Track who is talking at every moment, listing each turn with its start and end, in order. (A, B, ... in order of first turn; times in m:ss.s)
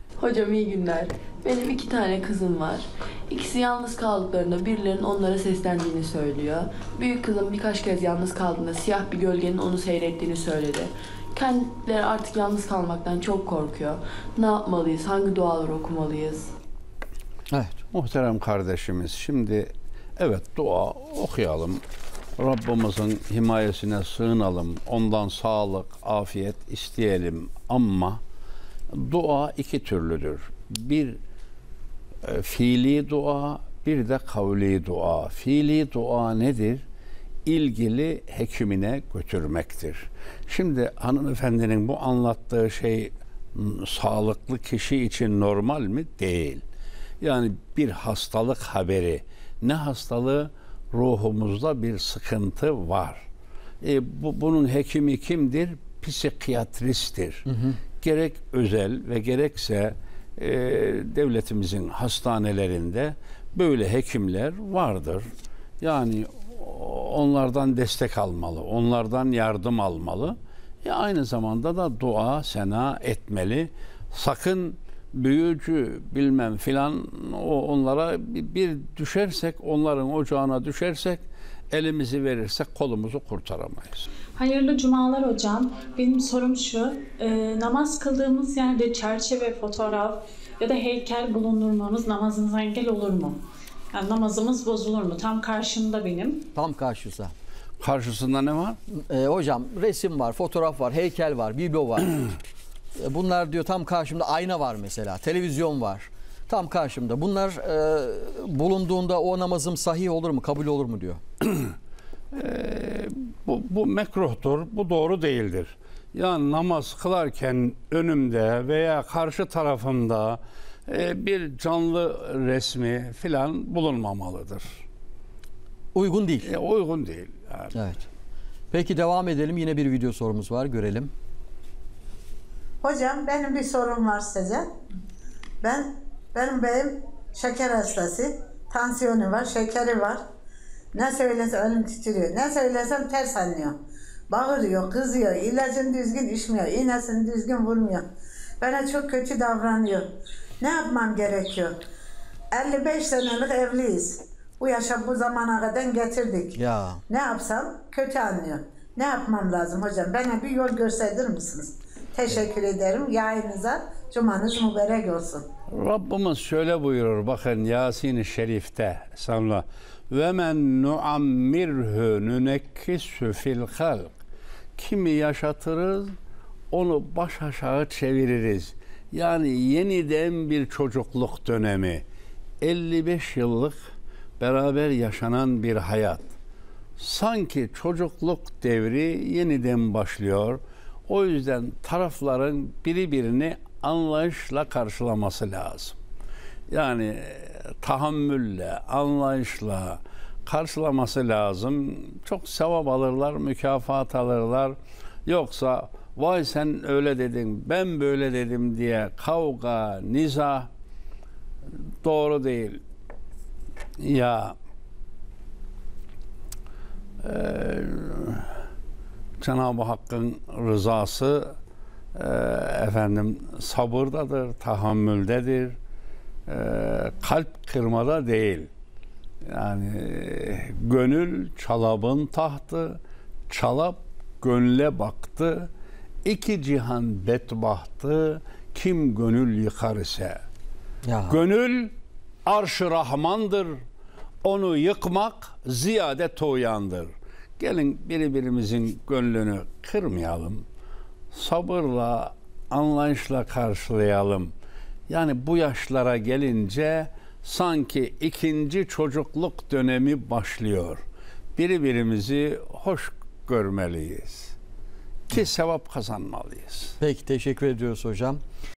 0:00.2-0:16.5 A
0:17.5-0:17.8 B
0:17.9-0:21.8 C
0:22.4-0:28.2 C
0:28.9-0:31.2 C
0:32.2-0:36.8 C
0:37.4-0:46.6 C
0:47.2-0:53.2 C
0:53.8-0:57.4 C
0:57.5-0:57.8 B
0:58.0-1:05.2 C
1:05.8-1:24.1 C
1:24.4-1:33.4 D
1:33.9-1:36.4 D
1:36.5-1:37.3 B
1:37.8-1:38.8 C
1:38.9-1:42.2 B
1:43.0-1:51.2 B
1:52.3-2:04.8 C
2:05.9-2:06.5 B
2:06.4-2:07.7 C
2:07.7-2:08.0 B
2:08.7-2:11.1 B
2:12.8-2:14.7 E
2:15.6-2:20.2 E
2:20.9-2:23.8 E
2:24.3-2:28.0 E
2:28.6-2:30.1 E
2:30.6-2:31.7 E
2:32.5-2:36.6 E
2:36.6-2:37.0 B
2:37.1-2:45.4 E
2:45.7-2:54.1 C
2:54.8-2:56.1 C
2:56.7-3:02.0 C
3:02.6-3:03.8 C
3:04.4-3:06.3 C
3:07.0-3:16.0 C
3:16.7-3:30.7 C
3:32.0-3:32.8 C
3:34.0-3:34.6 C
3:37.2-3:38.5 C
3:39.4-3:41.5 C
3:42.2-3:45.8 C
3:46.5-3:48.7 C
3:49.5-3:55.7 C
3:56.2-4:00.4 C
4:01.0-4:01.4 B
4:01.3-4:01.9 C
4:02.5-4:03.8 C
4:04.4-4:10.6 C
4:11.3-4:14.5 C
4:15.1-4:21.0 C
4:21.6-4:24.6 C
4:25.3-4:27.0 C
4:27.0-4:28.4 B